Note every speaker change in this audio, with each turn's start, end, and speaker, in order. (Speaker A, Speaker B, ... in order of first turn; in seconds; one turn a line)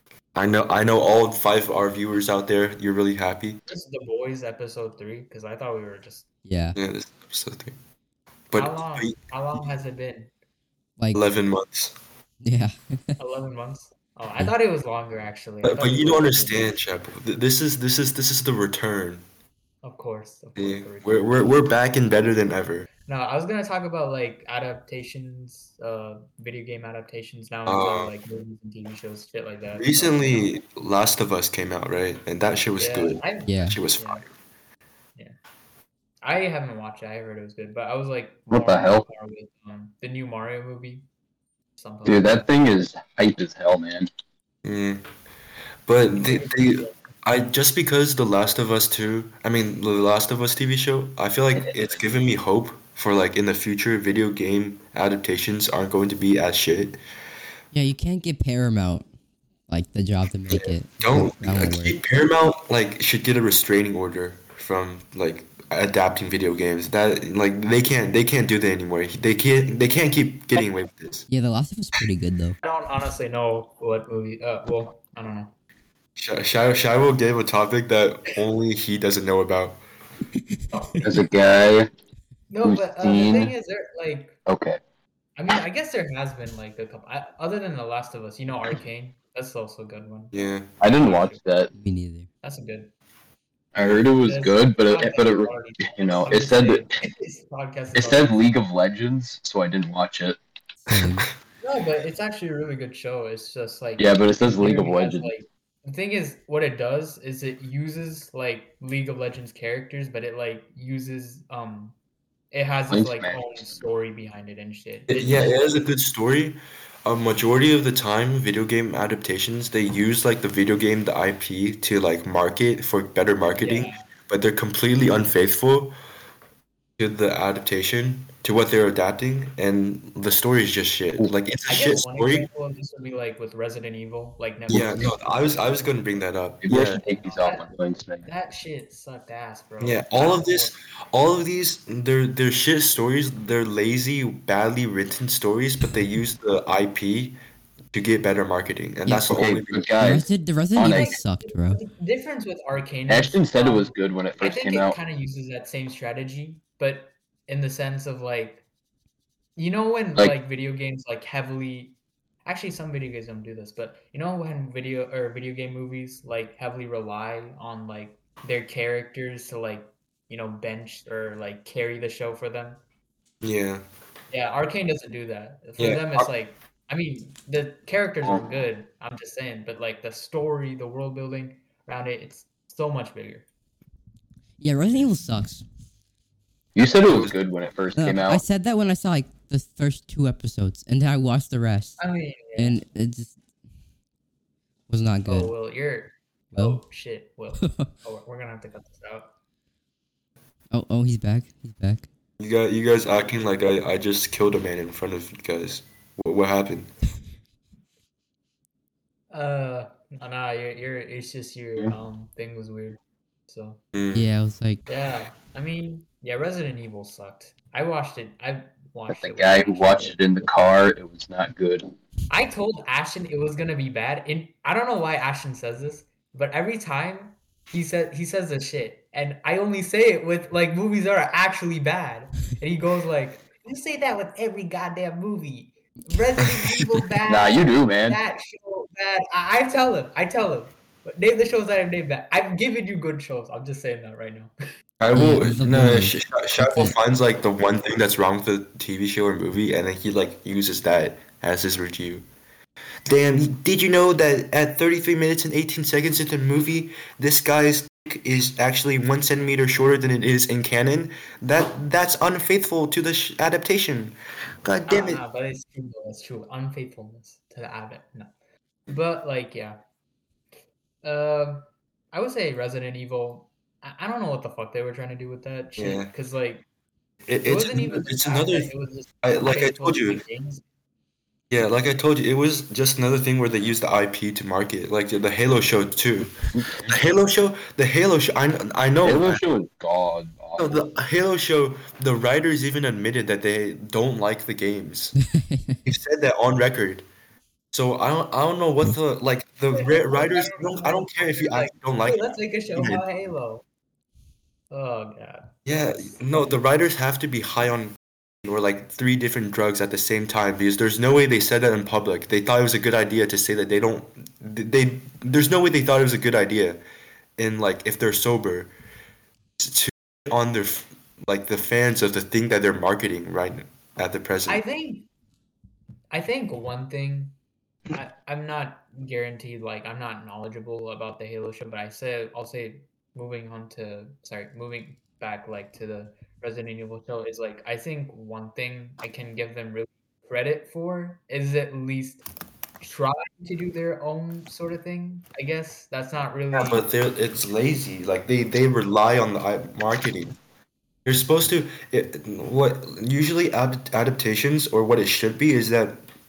Speaker A: 0.3-3.6
Speaker B: 3.7-6.3
Speaker C: 6.5-6.8
Speaker A: 6.8-7.8
Speaker A: 8.5-9.2
Speaker B: 8.6-10.3
Speaker A: 11.1-11.9
Speaker C: 12.4-13.2
Speaker B: 13.2-16.7
Speaker A: 15.6-19.2
Speaker B: 19.8-21.5
Speaker A: 20.6-22.9
Speaker B: 23.1-30.5
Speaker A: 27.7-28.1
Speaker A: 29.8-34.3
Speaker B: 32.8-34.3
Speaker C: 33.5-33.8
Speaker B: 36.2-41.1
Speaker D: 38.5-39.0
Speaker B: 41.8-42.5
Speaker D: 42.0-44.1
Speaker A: 44.6-45.0
Speaker A: 45.9-57.0
Speaker B: 46.2-47.0
Speaker C: 57.7-59.1
Speaker C: 59.7-62.0
Speaker A: 60.5-71.3
Speaker C: 71.3-72.6
Speaker B: 72.6-75.5
Speaker A: 76.2-79.8
Speaker C: 80.4-81.0
Speaker D: 81.0-81.9
Speaker B: 82.5-84.4
Speaker D: 82.6-83.5
Speaker D: 84.5-84.8
Speaker B: 85.4-90.3
Speaker A: 90.3-90.7
Speaker D: 90.8-91.7
Speaker B: 90.9-91.4
Speaker C: 91.7-92.3
Speaker B: 92.4-92.9
Speaker D: 93.8-96.9
Speaker B: 94.2-98.4
Speaker D: 98.0-100.4
Speaker C: 100.8-101.3
Speaker A: 101.0-101.3
Speaker B: 101.6-112.0
Speaker D: 104.0-105.3
Speaker B: 112.5-115.9
Speaker D: 112.9-113.7
Speaker A: 115.1-125.9
Speaker B: 123.6-124.1
Speaker A: 127.0-132.5
Speaker B: 131.7-135.1
Speaker A: 134.7-137.0
Speaker D: 136.6-138.3
Speaker B: 137.2-137.7
Speaker B: 138.2-140.7
Speaker A: 139.8-147.4
Speaker A: 147.9-150.2
Speaker D: 149.1-151.2
Speaker C: 150.0-151.8
Speaker B: 150.9-158.6
Speaker D: 153.1-155.0
Speaker B: 159.6-172.8
Speaker A: 173.4-173.8
Speaker B: 174.3-183.5
Speaker A: 175.8-176.3
Speaker C: 184.6-185.6
Speaker D: 186.8-188.4
Speaker A: 187.1-187.3
Speaker C: 188.0-192.0
Speaker B: 192.0-192.8
Speaker C: 192.6-193.4
Speaker C: 194.9-195.5
Speaker B: 195.2-199.3
Speaker C: 196.6-196.8
Speaker C: 197.6-197.9
Speaker C: 200.7-202.1
Speaker A: 202.4-206.9
Speaker B: 209.3-213.8
Speaker A: 213.9-214.3
Speaker C: 214.1-214.8
Speaker B: 214.9-220.2
Speaker D: 219.1-221.8
Speaker B: 222.3-244.5
Speaker A: 236.4-236.9
Speaker D: 237.3-238.2
Speaker A: 245.0-252.3
Speaker C: 245.1-246.9
Speaker A: 253.1-265.2
Speaker B: 264.9-268.3
Speaker B: 268.9-269.8
Speaker B: 271.0-276.6
Speaker A: 275.8-276.1
Speaker A: 277.3-278.7
Speaker B: 277.4-280.6
Speaker A: 279.2-280.2
Speaker A: 281.5-286.4
Speaker D: 286.5-287.0
Speaker A: 286.9-289.4
Speaker D: 289.0-290.8
Speaker A: 290.6-295.2
Speaker C: 295.3-295.8
Speaker A: 295.9-297.1
Speaker A: 297.7-303.1
Speaker B: 299.7-303.6
Speaker B: 304.7-305.5
Speaker A: 305.7-316.8
Speaker A: 317.4-318.7
Speaker A: 319.6-324.6
Speaker B: 324.5-325.1
Speaker B: 326.1-327.4
Speaker B: 327.9-342.2
Speaker B: 342.8-346.9
Speaker A: 346.5-350.4
Speaker A: 351.1-356.0